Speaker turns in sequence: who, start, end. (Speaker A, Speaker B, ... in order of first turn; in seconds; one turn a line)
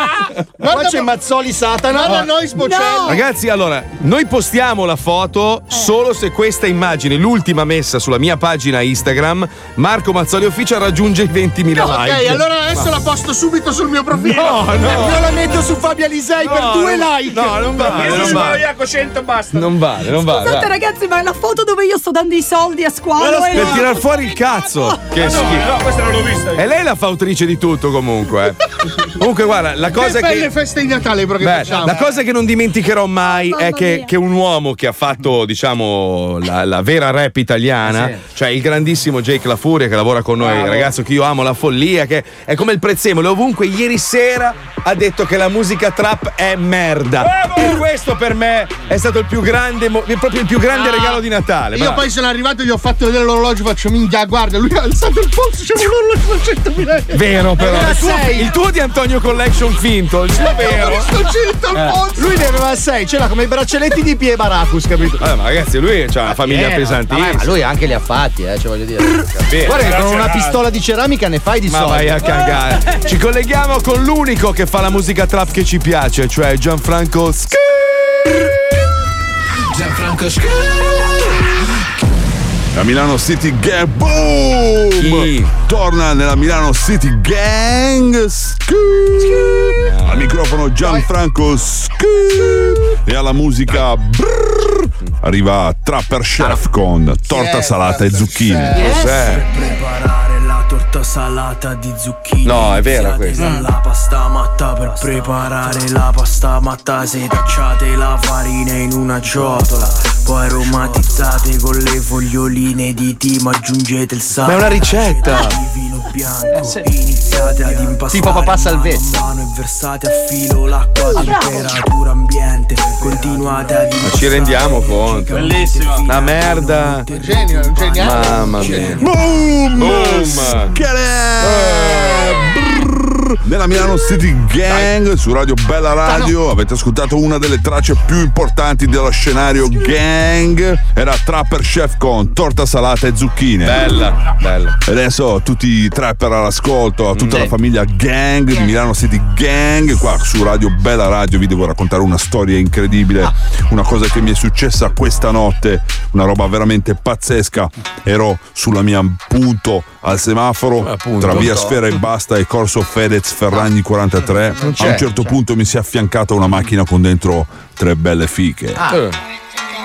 Speaker A: 0.6-1.1
Speaker B: 0.7-2.3
Speaker A: 1.9-3.2
Speaker C: 2.5-3.2
Speaker D: 3.0-12.9
Speaker A: 11.7-14.8
Speaker D: 14.2-15.3
Speaker B: 14.9-17.7
Speaker D: 16.4-18.6
Speaker E: 17.8-19.7
Speaker D: 19.5-20.7
Speaker C: 20.1-24.1
Speaker E: 23.2-23.9
Speaker D: 23.2-25.7
Speaker E: 25.1-26.6
Speaker D: 26.5-30.5
Speaker A: 29.9-32.1
Speaker D: 31.4-52.1
Speaker C: 33.2-34.1
Speaker B: 37.8-38.2
Speaker E: 47.2-47.7
Speaker A: 50.7-51.2
Speaker A: 51.7-57.2
Speaker D: 57.1-61.1
Speaker B: 57.6-58.5
Speaker A: 60.4-62.4
Speaker B: 62.1-65.2
Speaker D: 65.2-67.5
Speaker B: 66.3-72.4
Speaker D: 69.5-69.9
Speaker E: 69.7-70.7
Speaker D: 71.7-77.8
Speaker F: 82.7-98.8
Speaker D: 85.0-85.5
Speaker D: 89.8-90.3
Speaker A: 97.3-99.0
Speaker B: 98.7-99.1
Speaker D: 98.8-99.4
Speaker G: 99.0-129.1
Speaker D: 102.4-103.6
Speaker B: 103.3-103.7
Speaker D: 114.4-115.6
Speaker B: 118.0-119.2
Speaker C: 121.1-121.6
Speaker D: 124.0-127.1
Speaker E: 125.3-126.0
Speaker A: 127.1-128.8
Speaker D: 128.0-129.1
Speaker F: 129.0-143.8
Speaker D: 129.8-130.8
Speaker D: 131.4-132.1
Speaker B: 136.1-136.3
Speaker D: 143.6-144.8
Speaker F: 144.8-168.9
Speaker D: 147.1-147.5
Speaker D: 160.8-162.0
Speaker B: 164.5-165.4
Speaker D: 164.6-165.1
Speaker D: 168.9-169.2